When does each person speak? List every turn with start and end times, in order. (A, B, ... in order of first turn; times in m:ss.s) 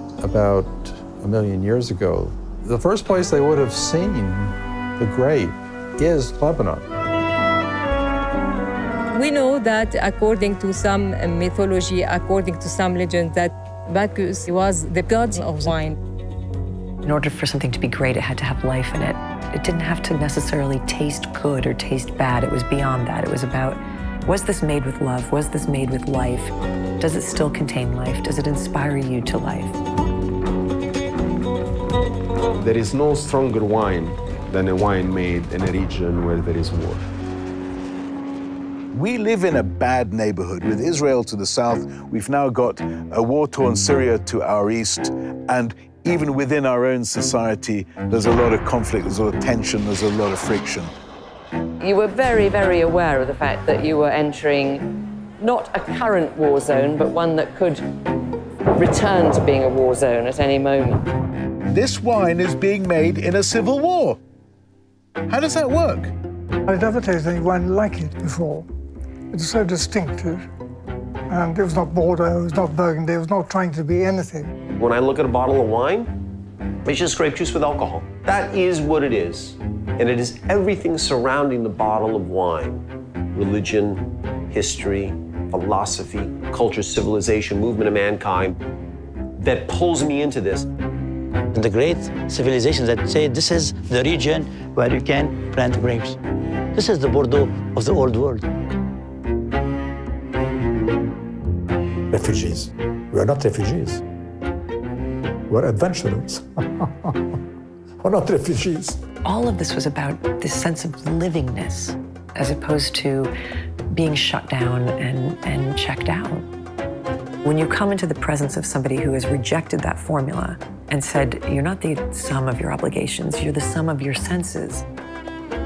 0:00.2-0:06.8 A
0:09.2-0:16.0 B
0:17.0-0:29.8 C
0:32.6-0:37.1 D
0:38.9-0:50.9 E
0:51.8-0:54.8 F
0:55.4-0:57.8 F
0:58.7-1:01.0 F
1:01.7-1:04.2 E
1:05.3-1:06.1 E
1:06.7-1:08.7 G
1:09.3-1:10.4 G
1:11.3-1:14.5 G
1:14.7-1:16.1 H
1:16.8-1:28.6 H
1:29.4-1:30.7 H
1:31.5-1:36.2 I
1:36.7-1:38.4 I
1:42.1-1:44.0 J
1:45.5-1:47.1 J
1:48.0-1:49.0 J
1:49.2-1:53.3 C
1:53.9-1:56.5 C
1:57.4-2:04.8 C